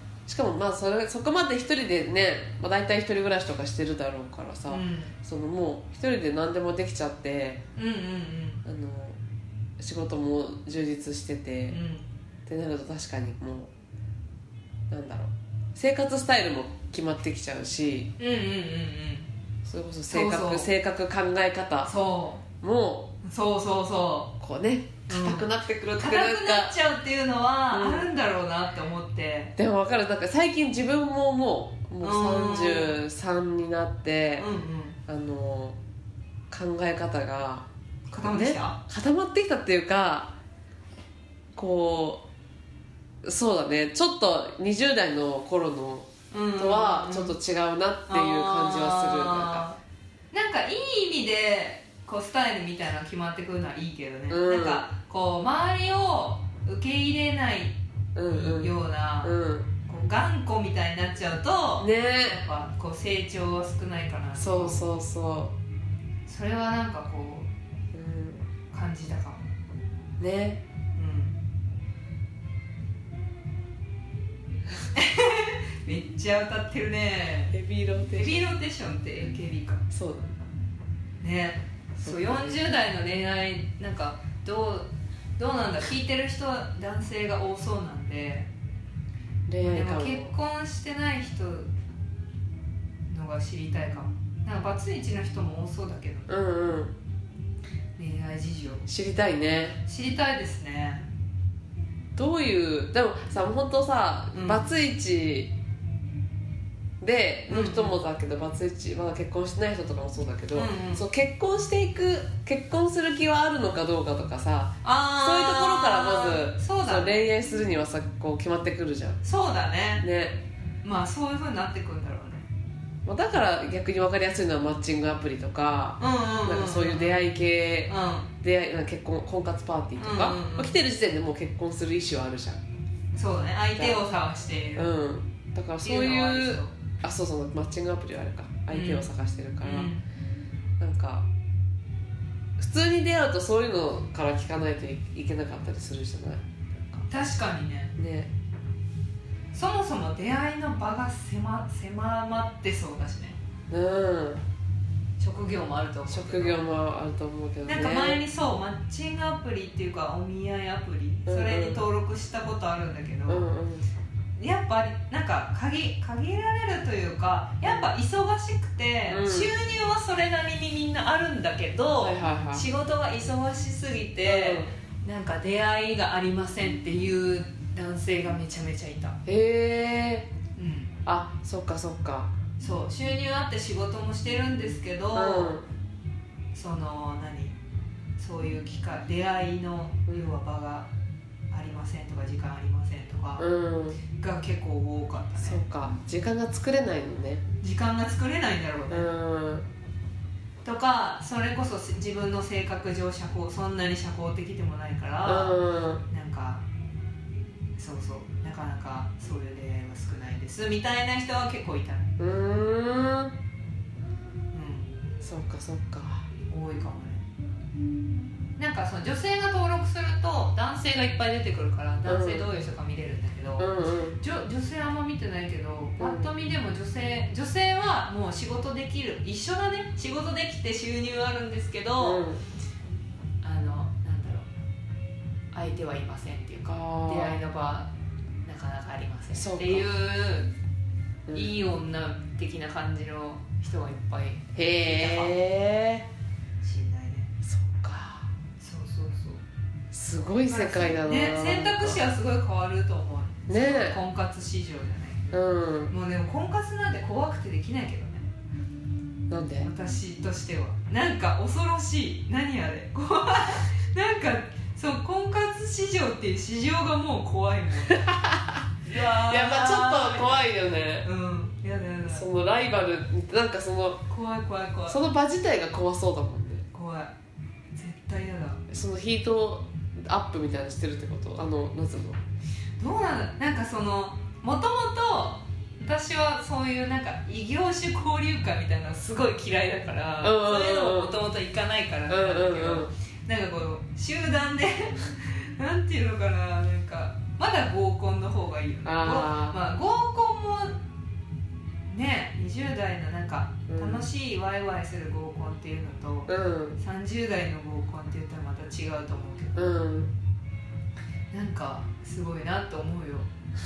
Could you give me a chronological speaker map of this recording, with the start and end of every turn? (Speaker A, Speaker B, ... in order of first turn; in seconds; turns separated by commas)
Speaker A: 0.3-7.6, Speaker B: 4.7-5.1, Speaker B: 7.8-8.6, Speaker A: 8.6-9.2, Speaker A: 9.8-11.8, Speaker B: 11.7-12.0, Speaker A: 12.5-13.7, Speaker A: 14.9-18.1, Speaker B: 18.2-19.3, Speaker A: 19.6-21.9, Speaker B: 20.1-20.7, Speaker B: 21.8-22.4, Speaker A: 22.6-23.1, Speaker B: 23.2-24.4, Speaker A: 24.4-26.7, Speaker B: 25.1-29.5, Speaker A: 27.7-28.1, Speaker A: 29.6-34.5, Speaker B: 32.0-33.0, Speaker B: 34.4-35.0, Speaker A: 35.1-35.8, Speaker A: 36.5-37.7, Speaker B: 38.1-38.8, Speaker A: 38.2-40.4, Speaker A: 41.5-42.2, Speaker A: 43.2-49.6, Speaker B: 46.3-47.4, Speaker B: 48.1-49.8, Speaker B: 50.3-57.8, Speaker A: 54.3-54.9, Speaker A: 58.1-59.7, Speaker B: 58.3-59.3, Speaker B: 59.9-64.9, Speaker A: 61.8-62.4, Speaker A: 64.4-65.5, Speaker B: 66.3-67.5, Speaker A: 67.9-68.5, Speaker B: 68.7-69.5, Speaker A: 70.2-70.6, Speaker B: 71.0-71.4, Speaker B: 74.9-77.5, Speaker A: 77.5-78.4, Speaker B: 78.1-79.8, Speaker A: 79.9-80.3, Speaker B: 81.2-88.5, Speaker A: 82.0-82.5, Speaker A: 89.5-90.3, Speaker B: 89.6-91.7, Speaker B: 93.1-96.3, Speaker A: 96.3-97.0, Speaker B: 98.0-98.9, Speaker A: 98.9-99.8, Speaker B: 99.9-101.0, Speaker A: 102.1-105.5, Speaker B: 104.3-104.6, Speaker A: 107.0-119.2, Speaker B: 107.5-108.0, Speaker B: 110.5-111.1, Speaker B: 114.8-117.2, Speaker B: 119.2-120.1, Speaker A: 120.0-120.4, Speaker B: 120.8-122.5, Speaker A: 123.1-132.6, Speaker B: 126.0-128.3, Speaker B: 130.0-130.8, Speaker B: 133.1-134.9, Speaker A: 133.8-134.1, Speaker A: 134.8-139.9, Speaker B: 135.8-136.7, Speaker B: 138.7-139.1, Speaker B: 139.6-140.0, Speaker A: 140.8-141.3, Speaker A: 142.6-147.1, Speaker B: 147.1-147.9, Speaker A: 148.0-148.3, Speaker B: 149.5-153.4, Speaker A: 153.7-154.4, Speaker B: 155.2-156.6, Speaker A: 156.1-158.2, Speaker B: 157.7-163.4, Speaker A: 161.3-161.8, Speaker A: 163.3-163.9, Speaker B: 164.4-179.2, Speaker A: 169.1-169.5, Speaker A: 172.0-172.6, Speaker A: 174.2-174.7, Speaker A: 179.3-180.3, Speaker B: 180.6-180.9, Speaker A: 181.1-182.3, Speaker B: 182.6-185.6, Speaker A: 185.1-185.7, Speaker B: 186.5-187.6, Speaker B: 188.2-190.9, Speaker A: 190.1-190.3, Speaker B: 191.5-193.5, Speaker A: 193.4-194.0, Speaker B: 194.1-195.6, Speaker A: 195.4-197.4, Speaker B: 197.6-199.1, Speaker A: 198.9-199.7, Speaker B: 200.6-206.6, Speaker A: 205.3-206.0, Speaker B: 207.8-212.1, Speaker A: 212.2-213.3, Speaker B: 214.5-214.9, Speaker A: 215.2-216.3, Speaker B: 216.5-217.3, Speaker B: 218.6-232.2, Speaker A: 222.1-222.5, Speaker A: 223.6-224.2, Speaker A: 226.0-226.3, Speaker A: 232.0-232.4, Speaker B: 233.4-234.5, Speaker B: 235.5-237.9, Speaker A: 236.7-237.4, Speaker B: 238.4-240.5, Speaker A: 239.3-239.9, Speaker A: 241.3-241.6, Speaker B: 241.3-245.4, Speaker A: 244.6-246.1, Speaker B: 246.6-247.3, Speaker A: 247.4-248.3, Speaker B: 248.6-249.4, Speaker A: 249.9-252.0, Speaker B: 250.4-258.3, Speaker A: 253.5-254.0, Speaker A: 255.3-255.9, Speaker A: 259.3-259.7, Speaker B: 259.6-268.1, Speaker A: 267.9-271.1, Speaker B: 268.9-270.4, Speaker B: 271.0-272.2, Speaker A: 272.1-274.1, Speaker B: 274.1-275.0, Speaker A: 274.9-276.6, Speaker B: 276.7-277.1, Speaker B: 277.8-278.6, Speaker A: 278.7-282.2, Speaker B: 282.8-300.8, Speaker A: 290.2-291.1, Speaker A: 292.1-292.9, Speaker A: 298.9-299.6, Speaker B: 301.9-309.8, Speaker A: 303.7-304.1, Speaker A: 306.3-306.8, Speaker A: 309.6-310.1, Speaker B: 311.3-313.3